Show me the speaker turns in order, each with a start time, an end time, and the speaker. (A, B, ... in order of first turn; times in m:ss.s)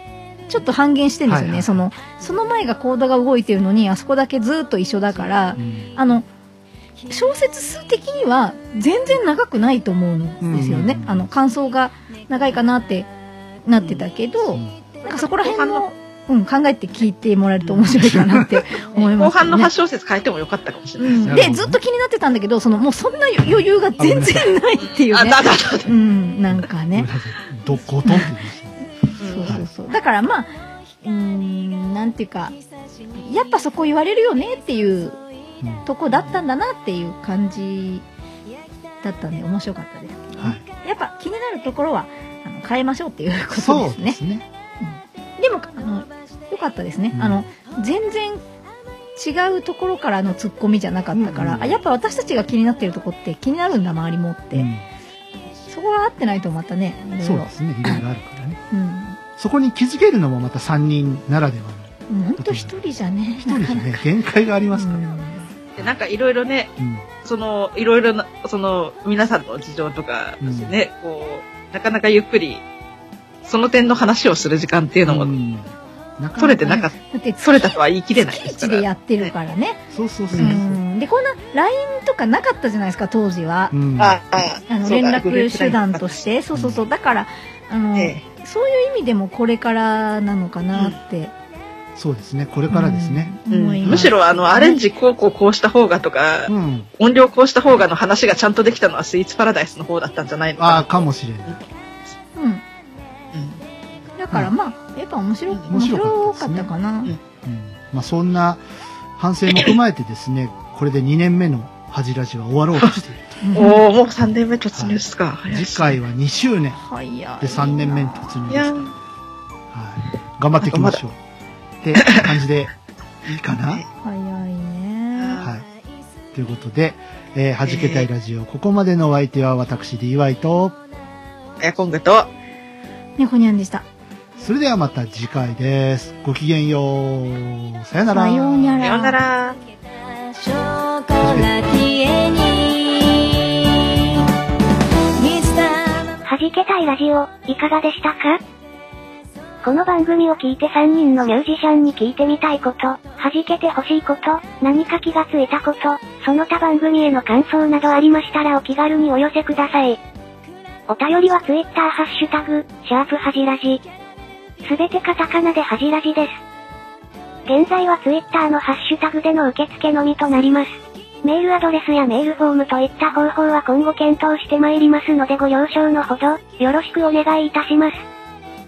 0:00.5-0:06.3 A
0:01.3-0:01.8 B
0:05.6-0:05.9 B
0:07.1-0:13.1 A
0:10.4-0:11.3 B
0:13.6-0:19.7 A
0:15.0-0:15.8 C
0:17.6-0:17.9 C
0:18.1-0:18.5 B
0:18.9-0:21.5 C
0:21.0-0:27.1 A
0:21.2-0:21.8 B
0:24.0-0:24.6 B
0:24.8-0:25.9 C
0:26.9-0:28.7 B
0:28.0-0:28.3 A
0:29.2-0:30.5 A
0:29.2-0:29.6 C
0:31.0-0:32.6 A
0:33.1-0:35.2 A
0:35.6-0:35.9 B
0:35.8-0:38.0 A
0:39.0-0:44.2 A
0:40.4-0:40.6 B
0:43.5-0:44.4 B
0:44.8-0:48.4 A
0:47.1-0:47.5 B
0:49.2-0:54.7 A
0:51.1-0:51.8 B
0:54.5-0:54.8 B
0:55.7-0:58.0 A
0:57.2-0:58.6 B
0:58.7-0:59.2 A
0:59.4-1:05.0 B
1:02.1-1:04.0 A
1:04.7-1:05.5 A
1:05.7-1:06.7 C
1:06.8-1:07.1 B
1:07.2-1:12.6 C
1:10.4-1:10.8 B
1:13.4-1:15.3 C
1:15.0-1:16.7 B
1:16.4-1:19.3 C
1:16.7-1:19.8 A
1:19.9-1:20.8 B
1:20.3-1:20.6 C
1:20.3-1:23.8 A
1:23.7-1:24.2 B
1:24.0-1:26.2 C
1:24.7-1:31.3 A
1:26.5-1:26.8 B
1:28.0-1:28.2 C
1:31.9-1:33.3 B
1:32.7-1:34.8 A
1:33.5-1:41.6 C
1:33.8-1:34.1 B
1:36.5-1:36.9 B
1:40.6-1:41.6 B
1:42.4-1:42.6 A
1:43.3-1:43.6 C
1:44.2-1:47.1 A
1:45.7-1:46.7 B
1:47.4-1:48.6 B
1:49.2-1:53.4 B
1:53.4-1:53.8 A
1:53.5-1:56.0 C
1:54.7-1:56.8 B
1:56.8-1:58.5 A
1:57.4-1:58.9 B
1:58.5-1:58.9 C
1:59.7-2:01.2 B
2:00.6-2:01.0 C
2:01.8-2:02.7 B
2:02.0-2:02.3 C
2:03.2-2:03.8 B
2:04.0-2:05.4 A
2:05.2-2:05.5 C
2:05.4-2:05.6 B
2:06.3-2:10.8 B
2:07.7-2:08.1 C
2:11.6-2:12.3 C
2:13.2-2:13.8 A
2:14.4-2:18.9 B
2:18.1-2:19.2 A
2:18.8-2:19.6 C
2:20.0-2:24.3 D
2:21.2-2:21.5 B
2:25.2-2:26.2 D
2:26.2-2:28.4 E
2:29.6-2:40.0 E
2:40.9-2:43.8 E
2:44.6-2:46.4 E
2:47.5-2:58.0 E